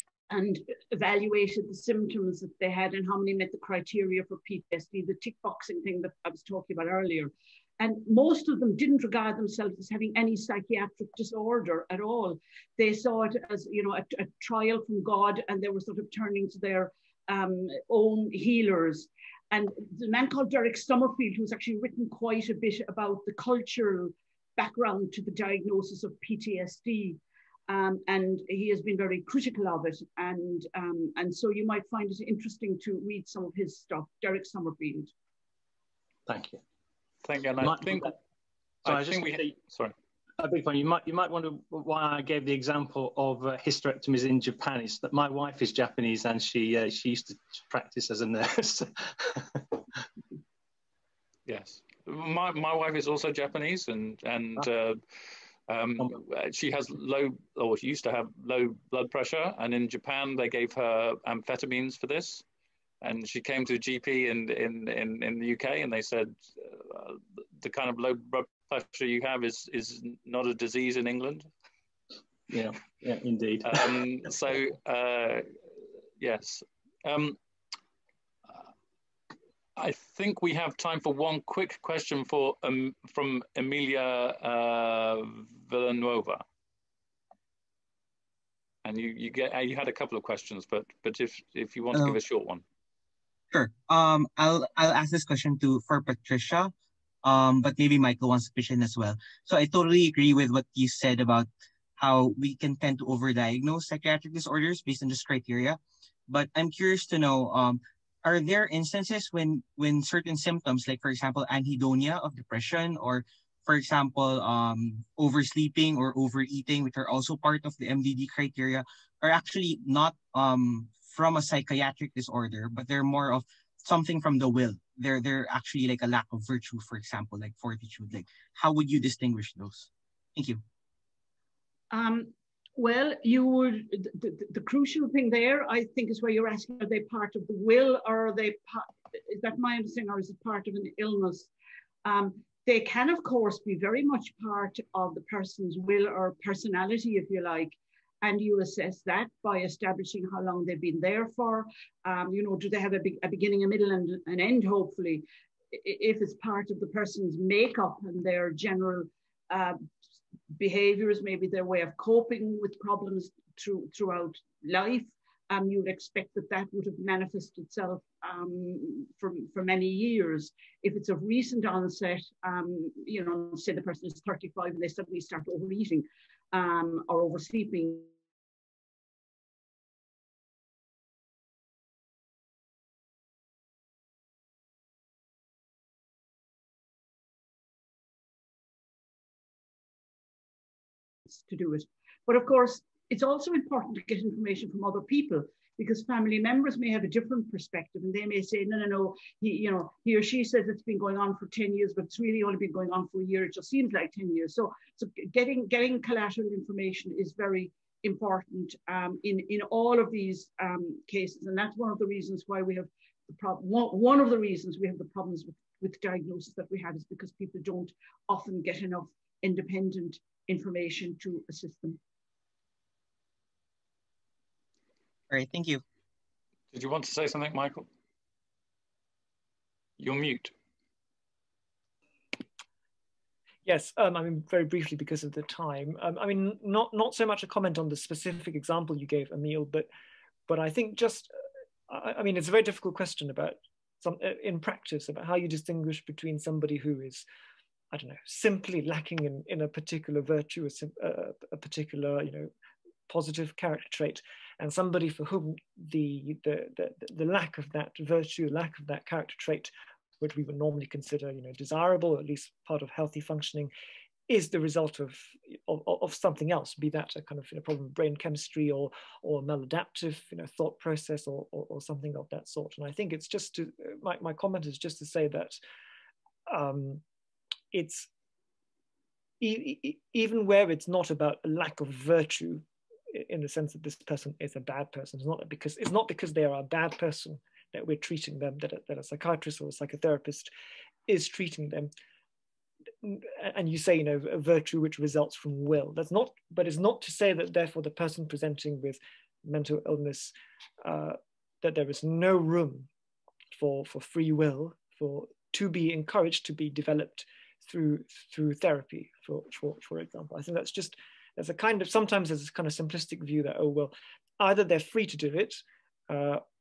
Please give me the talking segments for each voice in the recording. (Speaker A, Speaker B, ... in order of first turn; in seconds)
Speaker A: 0.3-35.1, 131.9-141.5, 142.0-159.9, 160.6-178.1, 191.3-222.0
Speaker B: 36.2-36.6, 37.6-38.1, 38.8-39.5, 40.4-49.8, 72.5-73.9
Speaker C: 37.2-38.1, 38.8-39.9, 51.5-55.0, 55.7-62.4, 63.0-71.5, 73.6-75.5, 76.2-77.4, 79.8-86.4, 88.8-92.6, 226.7-227.9, 230.0-230.5
Speaker D: 93.5-96.7, 97.2-130.6, 225.3-225.8
Speaker E: 233.7-239.9, 240.5-241.3, 241.9-247.2, 247.9-252.5, 253.1-263.7, 264.3-275.6, 276.5-277.0, 277.7-278.1, 279.4-290.5, 291.1-291.9, 293.0-302.9, 303.5-316.4